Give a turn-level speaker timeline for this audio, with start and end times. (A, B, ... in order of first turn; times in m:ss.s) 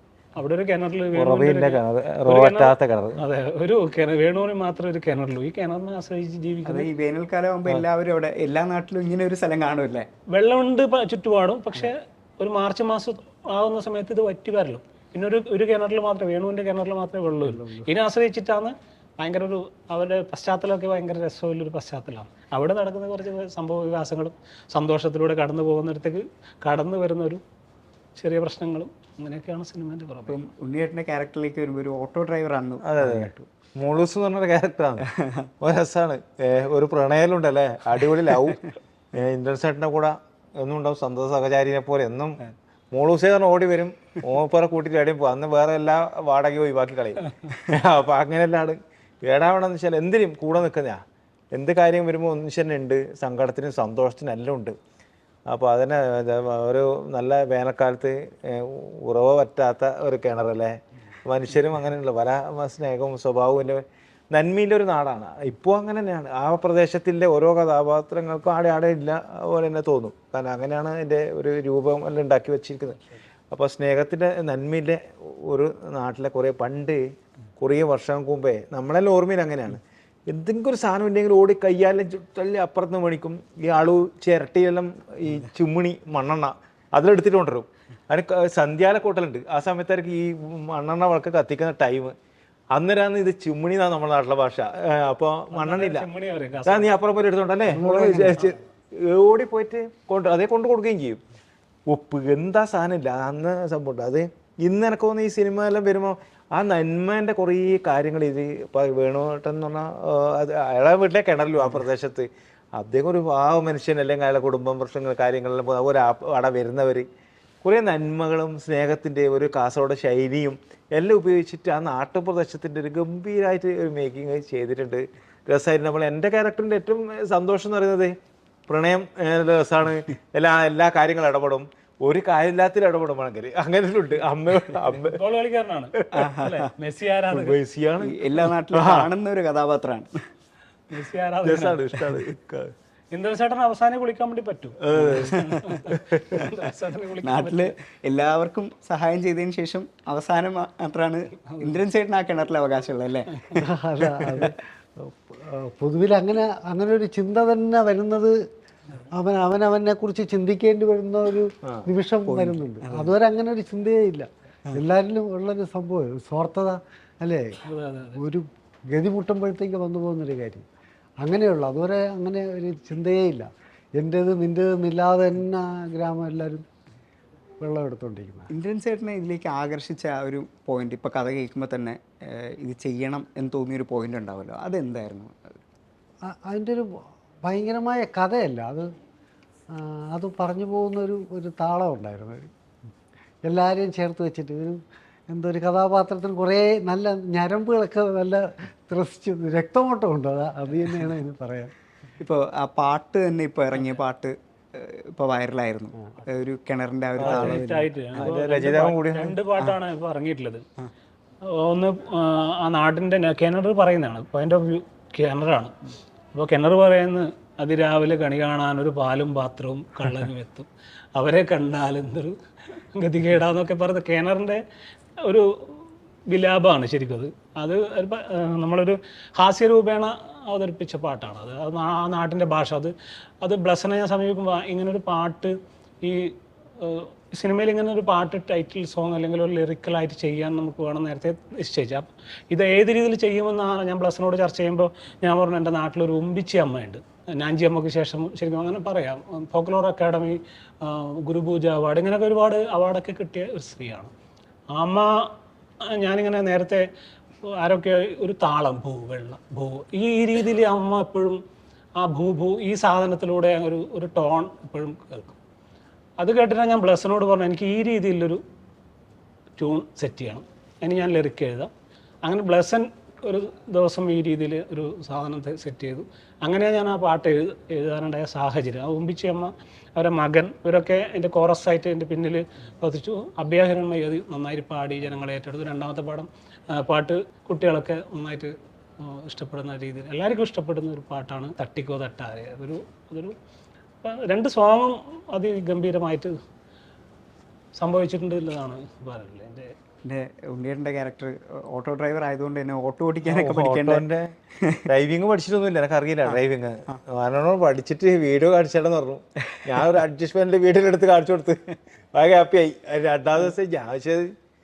0:00.4-0:06.9 A
0:01.1-0:03.2 B
0:06.6-0:10.1 C
0:10.3-0:27.4 A
0:17.4-0:17.9 D
0:28.2-0:30.4 A
0:30.3-0:33.5 C
0:32.8-0:35.0 B
0:35.6-0:42.4 B
0:42.9-0:51.0 B
0:51.5-0:54.7 B
0:55.5-1:13.0 B
1:13.5-1:17.0 B
1:17.6-1:32.1 B
1:32.7-1:36.1 B
1:35.5-1:36.9 A
1:36.6-1:41.2 B
1:37.7-1:38.5 D
1:41.9-1:57.0 B
1:57.6-2:08.1 B
2:08.7-2:15.2 B
2:15.0-2:17.6 A
2:16.0-2:16.2 B
2:16.1-2:16.7 C
2:17.3-2:19.1 B
2:18.0-2:20.1 C
2:20.9-2:21.9 A
2:21.4-2:22.7 B
2:23.1-2:27.7 A
2:24.8-2:26.4 B
2:25.0-2:25.7 C
2:27.2-2:33.3 C
2:33.6-2:38.3 D
2:34.2-2:34.5 C
2:39.1-2:47.6 D
2:42.2-2:43.1 C
2:47.7-2:48.2 A
2:48.2-2:50.6 D
2:51.2-2:56.6 D
2:57.6-2:58.5 D
2:58.5-3:05.6 C
3:06.3-3:06.9 D
3:07.4-3:08.9 D
3:09.7-3:12.5 D
3:13.4-3:14.8 D
3:15.3-3:21.7 D
3:22.2-3:27.9 C
3:27.2-3:27.6 B
3:27.2-3:30.6 A
3:28.2-3:29.4 B
3:31.5-3:35.7 A
3:36.3-3:44.6 A
3:45.2-4:14.1 A
4:14.7-4:15.3 A
4:15.9-4:16.8 A
4:17.4-4:21.4 A
4:22.0-4:25.4 A
4:26.2-4:28.4 A
4:29.6-4:31.7 A
4:32.2-4:53.3 A
4:54.0-4:56.3 A
4:57.8-4:59.7 A
5:00.0-5:04.0 C
5:03.2-5:04.3 B
5:04.8-5:14.3 B